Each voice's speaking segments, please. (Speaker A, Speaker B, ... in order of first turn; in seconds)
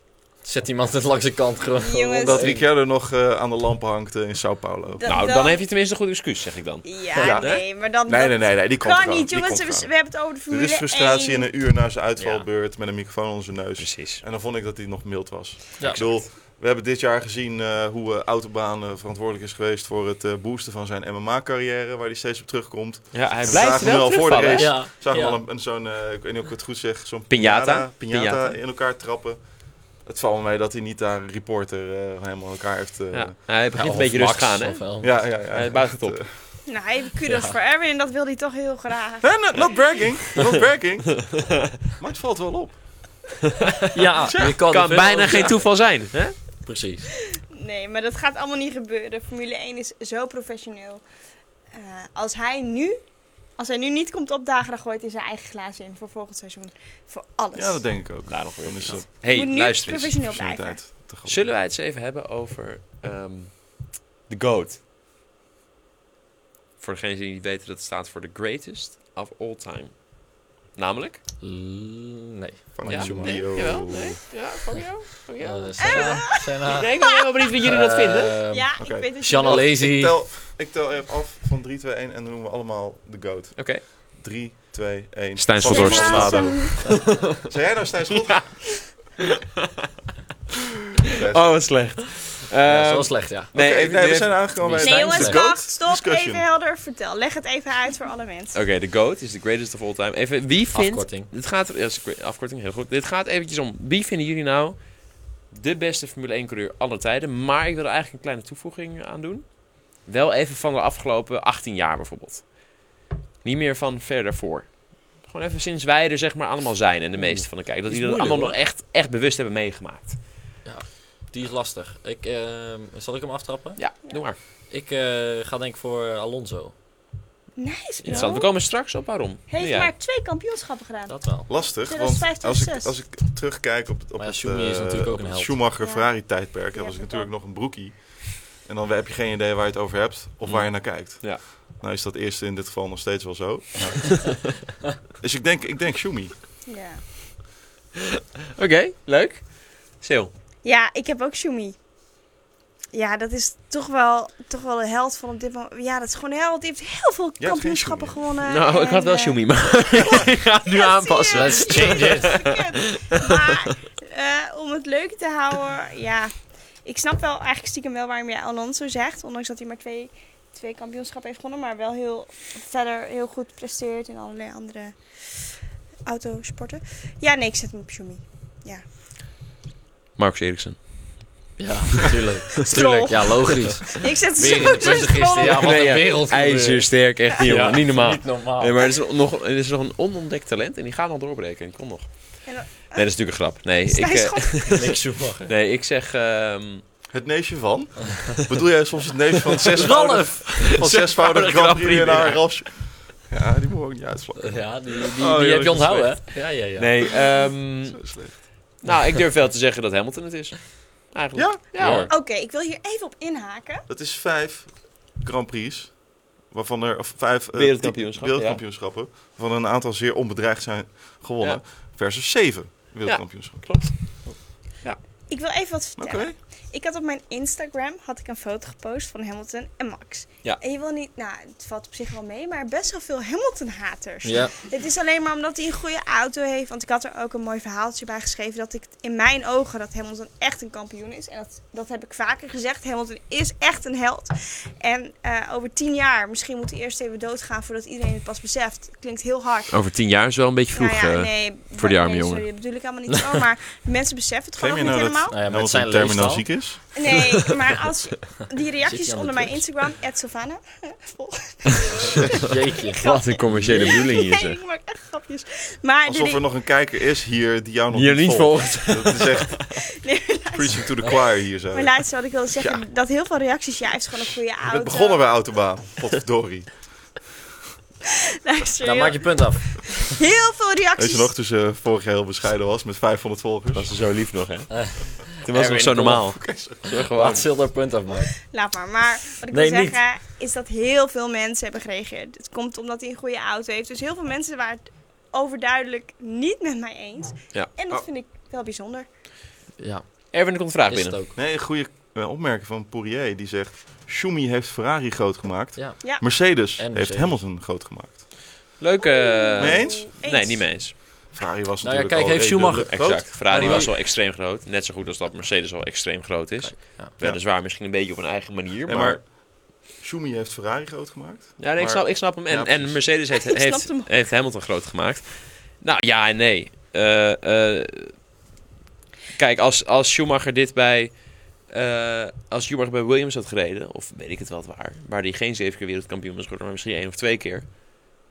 Speaker A: 0.4-2.7, 12.2-12.5, 24.6-25.4, 33.7-35.2, 37.3-37.5, 43.9-45.7, 46.7-47.1, 71.4-73.4, 75.4-76.9, 77.6-80.2, 92.7-93.8, 94.5-95.4, 100.7-101.3, 117.2-118.6, 120.7-123.8, 124.7-126.7, 131.1-131.5, 134.2-135.6, 161.3-162.4, 181.6-188.8, 194.8-195.5, 199.8-200.8, 204.4-206.9, 211.8-212.1, 234.2-234.5, 255.3-256.5, 258.9-259.6, 262.4-263.9, 278.8-280.0, 284.7-288.4, 289.5-290.0, 299.8-301.4, 305.8-307.4, 311.8-313.9, 316.6-317.1
Speaker B: 1.8-2.5, 5.0-5.6, 6.8-11.5, 36.7-40.0, 47.4-51.0, 51.7-53.0, 53.6-57.9, 59.2-60.8, 73.2-73.5, 75.8-77.4, 78.5-79.7, 85.6-86.8, 94.8-98.6, 127.6-128.6, 129.5-132.9, 135.8-136.2, 136.7-137.3, 146.7-147.0, 150.6-151.8, 152.9-175.2, 176.1-178.8, 182.6-185.8, 192.5-193.1, 193.9-194.9, 212.1-213.9, 225.3-249.8, 250.7-255.4, 256.9-266.4, 270.0-271.1, 271.7-275.3, 278.4-281.3, 288.5-299.1, 309.0-310.7, 323.3-324.1
Speaker C: 2.2-5.0, 7.2-9.9, 10.5-33.4, 35.0-36.3, 39.2-42.8, 44.3-45.6, 57.5-59.1, 60.2-61.5, 72.8-74.2, 78.8-88.9, 91.1-91.5, 93.5-96.5, 131.5-144.6, 145.2-146.3, 157.4-158.2, 197.1-206.2, 207.9-208.3, 211.3-211.6, 213.9-223.8, 226.0-226.3, 254.6-256.8, 266.1-269.6, 270.5-272.0, 272.6-272.8, 274.6-277.1, 281.0-283.9, 286.3-286.8, 301.4-308.4, 309.6-310.1, 311.3-313.9, 318.9-323.1
Speaker D: 5.1-7.6, 13.8-14.2, 15.8-16.3, 23.1-24.8, 27.3-28.6, 33.1-34.8, 35.5-36.4, 44.4-46.3, 58.2-60.2, 61.2-64.8, 66.8-70.2, 70.7-71.2, 72.9-78.4, 83.6-83.8, 85.4-87.5, 88.2-88.5, 91.1-94.6, 98.5-105.0, 105.5-112.6, 113.4-120.2, 123.8-124.4, 128.0-129.9, 140.4-141.4, 148.6-150.3, 158.4-163.4, 180.2-181.3, 182.7-183.8, 185.3-196.8, 200.5-202.6, 206.8-212.1, 217.5-218.6, 223.1-224.3, 249.7-252.5, 263.0-264.6, 267.9-269.7, 283.7-287.5, 300.3-301.2, 308.8-310.9, 312.9-319.2, 321.6-328.2, 329.3-337.7